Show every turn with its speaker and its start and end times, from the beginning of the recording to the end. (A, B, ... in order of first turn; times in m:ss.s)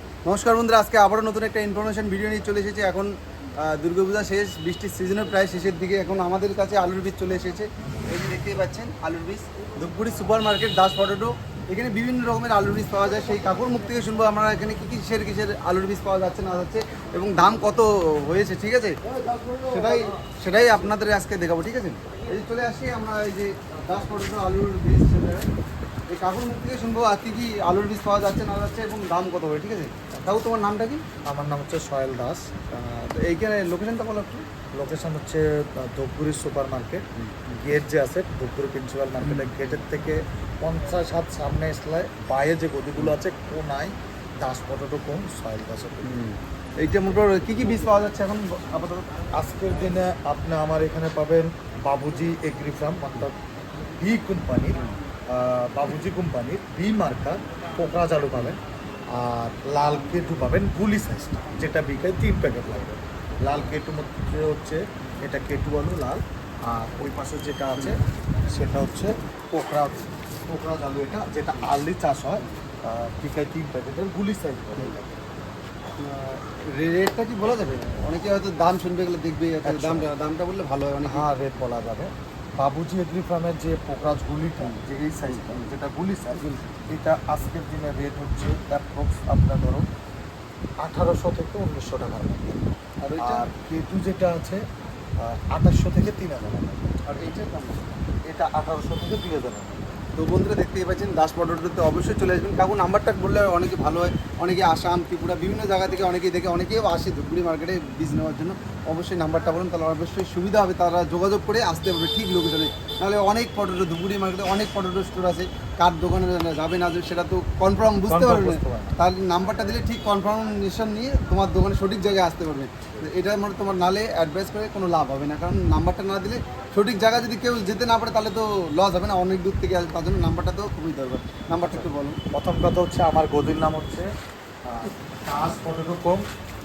0:00.2-0:19.0 A
0:19.6-0:25.5 A
0:26.1-0:31.0 A
0:31.2-0:32.6 B
0:32.7-0:34.4 A
0:34.7-0:46.2 B
0:39.2-0:39.6 A
0:46.0-0:49.1 A
0:49.3-0:53.4 B
0:54.0-0:58.6 B
0:59.1-1:15.2 B
1:16.0-1:21.3 A
1:19.6-1:20.1 B
1:21.0-1:29.9 B
1:24.6-1:25.7 A
1:26.4-1:26.6 A
1:30.8-1:32.6 B
1:33.0-1:33.5 A
1:33.2-1:34.6 B
1:35.2-1:37.0 B
1:37.1-1:37.9 A
1:38.2-1:40.0 B
1:40.2-2:12.2 A
1:58.1-1:59.0 B
2:11.6-2:14.1 B
2:14.6-2:16.2 B